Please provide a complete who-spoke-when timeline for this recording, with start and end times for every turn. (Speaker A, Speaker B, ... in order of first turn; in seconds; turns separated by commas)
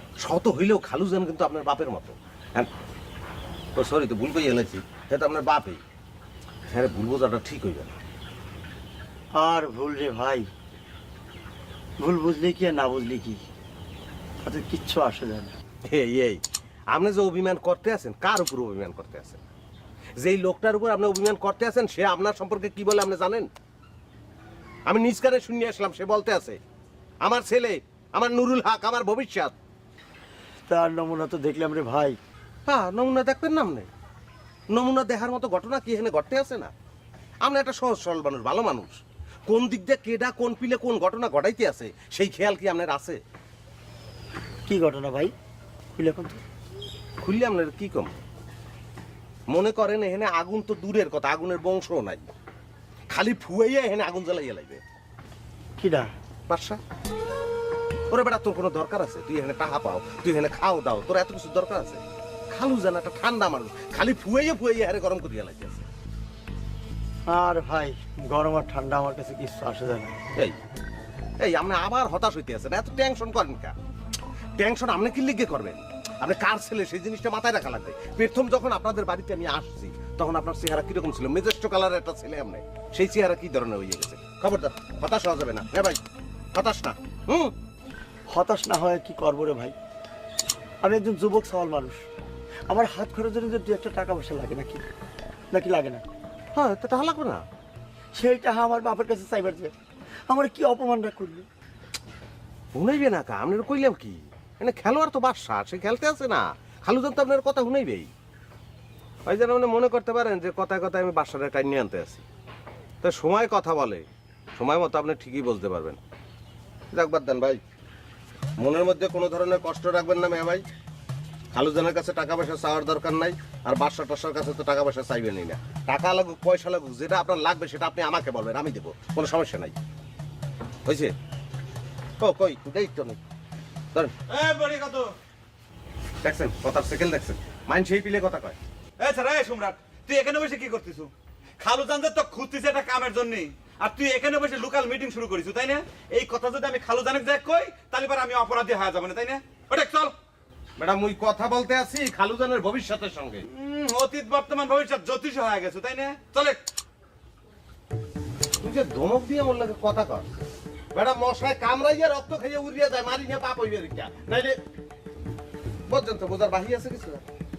Speaker A: 0.2-2.7, Speaker A: 3.8-5.8, Speaker A: 6.7-8.0, Speaker B: 9.4-10.5, Speaker B: 12.0-13.4, Speaker B: 14.4-15.6, Speaker A: 15.8-19.4, Speaker A: 20.2-23.5, Speaker A: 24.9-26.6, Speaker A: 27.2-29.6, Speaker B: 30.7-32.2, Speaker A: 32.6-33.9, Speaker A: 34.7-36.7, Speaker A: 37.4-43.2, Speaker B: 44.6-45.3, Speaker B: 45.9-46.4, Speaker A: 47.2-48.2, Speaker A: 49.5-52.2, Speaker A: 53.1-54.8, Speaker B: 55.8-56.1, Speaker A: 56.5-56.8, Speaker A: 58.1-65.8, Speaker B: 67.3-70.2, Speaker A: 71.4-73.7, Speaker A: 74.6-86.0, Speaker A: 86.5-87.5, Speaker B: 88.3-89.8, Speaker B: 90.8-92.0, Speaker B: 92.7-94.8, Speaker B: 95.5-96.0, Speaker A: 96.5-97.4, Speaker B: 98.1-99.7, Speaker B: 100.3-101.5, Speaker A: 102.7-108.1, Speaker A: 109.2-112.2, Speaker A: 113.0-114.0, Speaker A: 114.5-116.0, Speaker A: 116.9-117.6, Speaker A: 118.6-120.7, Speaker A: 121.5-129.8, Speaker A: 130.8-131.1, Speaker A: 132.2-133.2, Speaker C: 134.3-135.1, Speaker A: 136.2-138.6, Speaker C: 139.0-150.1, Speaker A: 150.8-153.4, Speaker C: 153.5-156.6, Speaker A: 158.6-160.3, Speaker A: 160.9-164.6, Speaker A: 165.9-167.2